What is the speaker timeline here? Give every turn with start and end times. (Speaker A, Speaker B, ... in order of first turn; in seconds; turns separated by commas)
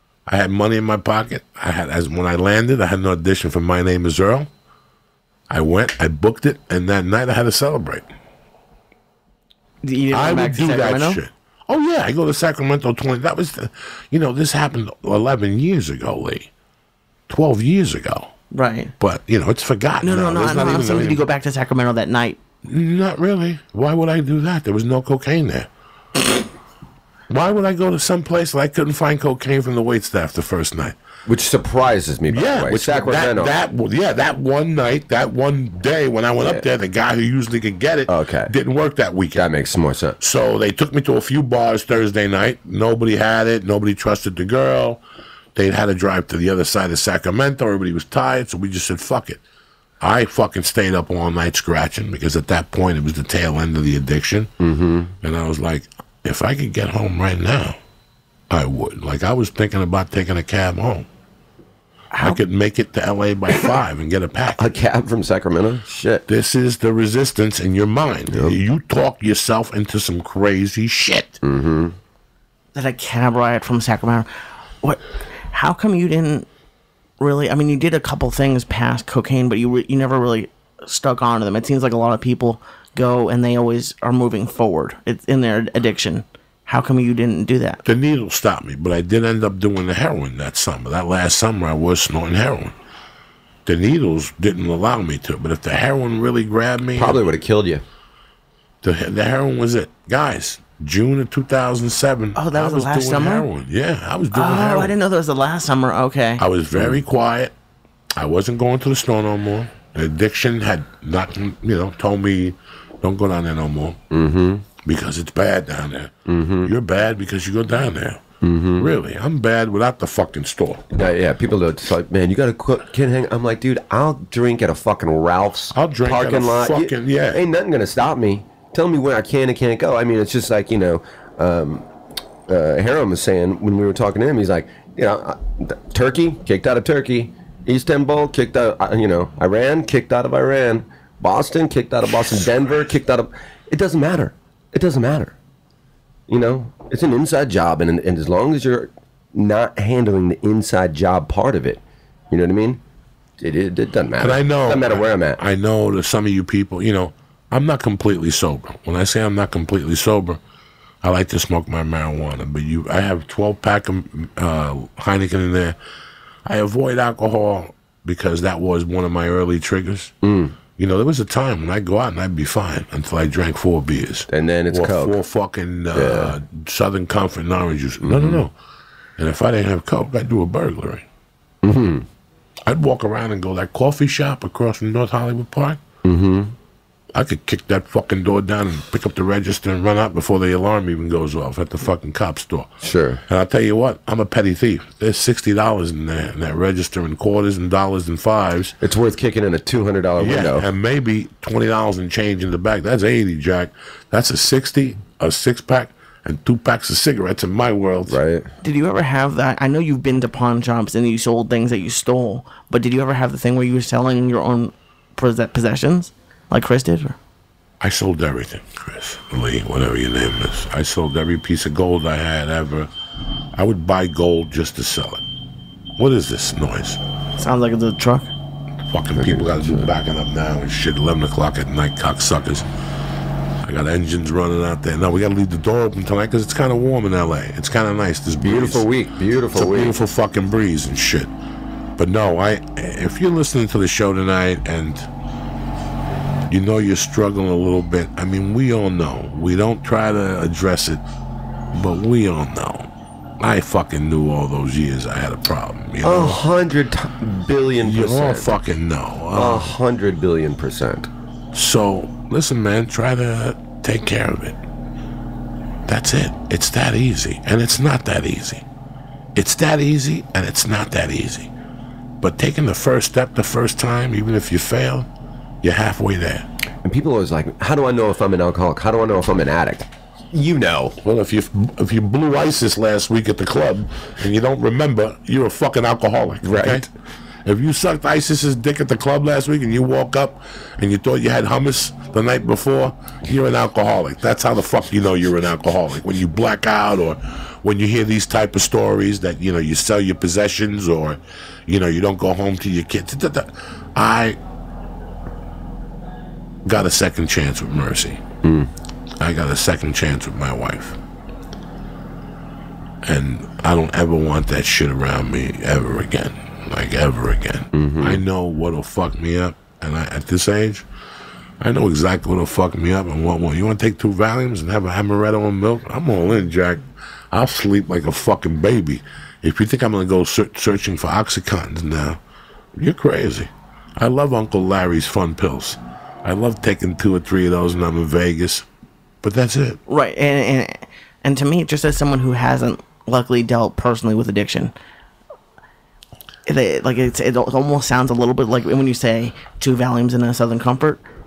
Speaker A: 0.3-4.5, Speaker A: 5.5-8.1, Speaker B: 9.8-11.2, Speaker A: 10.1-16.5, Speaker A: 17.3-18.3, Speaker B: 18.5-18.9, Speaker A: 19.0-21.2, Speaker B: 20.0-22.4, Speaker A: 22.6-25.7, Speaker A: 27.3-30.9, Speaker C: 31.2-33.5, Speaker A: 32.3-39.4, Speaker C: 38.1-38.5, Speaker C: 39.3-40.2, Speaker A: 40.2-45.0, Speaker A: 45.5-49.4, Speaker A: 50.0-54.5, Speaker C: 54.6-55.1, Speaker A: 55.2-57.8, Speaker A: 58.5-61.1, Speaker A: 62.2-64.7, Speaker C: 64.5-66.2, Speaker A: 66.3-71.4, Speaker C: 68.3-68.6, Speaker C: 71.4-72.0, Speaker B: 72.7-74.3, Speaker B: 74.8-76.5, Speaker B: 77.2-87.8, Speaker A: 87.8-92.7, Speaker A: 93.7-97.2, Speaker C: 97.0-97.8, Speaker A: 98.8-104.9, Speaker B: 102.3-103.5, Speaker B: 104.3-106.4, Speaker A: 106.4-107.5, Speaker A: 108.1-114.0, Speaker C: 114.1-114.7, Speaker A: 114.8-116.1, Speaker C: 116.3-116.7, Speaker A: 116.6-118.2, Speaker C: 118.4-118.9, Speaker A: 118.8-120.8, Speaker C: 120.9-131.9, Speaker A: 125.7-127.4, Speaker C: 132.5-145.3, Speaker C: 146.3-152.8, Speaker C: 153.4-155.4, Speaker A: 154.2-160.4, Speaker A: 161.0-165.8, Speaker A: 166.4-170.1, Speaker C: 170.2-170.6, Speaker A: 170.8-178.5, Speaker C: 174.3-175.2, Speaker C: 175.9-176.3, Speaker C: 178.0-178.4, Speaker A: 179.2-181.0, Speaker C: 181.6-182.1, Speaker A: 182.7-185.8, Speaker C: 186.0-186.5, Speaker A: 187.1-192.7, Speaker C: 192.8-193.2, Speaker A: 193.3-198.8, Speaker C: 198.8-200.7, Speaker A: 200.2-208.2, Speaker C: 208.1-208.5, Speaker B: 208.6-217.2, Speaker A: 217.8-222.9, Speaker A: 223.5-225.2, Speaker A: 226.0-227.0, Speaker B: 227.4-228.3, Speaker A: 228.9-232.7, Speaker C: 229.2-229.9, Speaker A: 233.6-238.8, Speaker C: 238.4-239.9, Speaker A: 239.5-241.3, Speaker A: 242.0-245.1, Speaker A: 246.5-251.0, Speaker A: 251.7-252.9, Speaker A: 253.4-256.4, Speaker C: 256.0-258.6, Speaker A: 257.8-259.7, Speaker C: 259.3-261.1, Speaker A: 261.5-264.6, Speaker A: 265.9-268.6, Speaker A: 269.3-271.5, Speaker A: 272.2-275.1, Speaker A: 275.6-276.5, Speaker C: 276.8-281.0, Speaker A: 281.0-286.9, Speaker C: 286.4-286.9, Speaker A: 287.4-304.4, Speaker A: 306.6-308.2, Speaker C: 308.4-308.7, Speaker A: 309.2-311.0, Speaker A: 313.0-320.8, Speaker C: 317.7-318.2, Speaker A: 321.6-332.2, Speaker A: 332.8-338.6, Speaker A: 339.2-339.8, Speaker B: 339.9-344.7, Speaker B: 346.4-351.0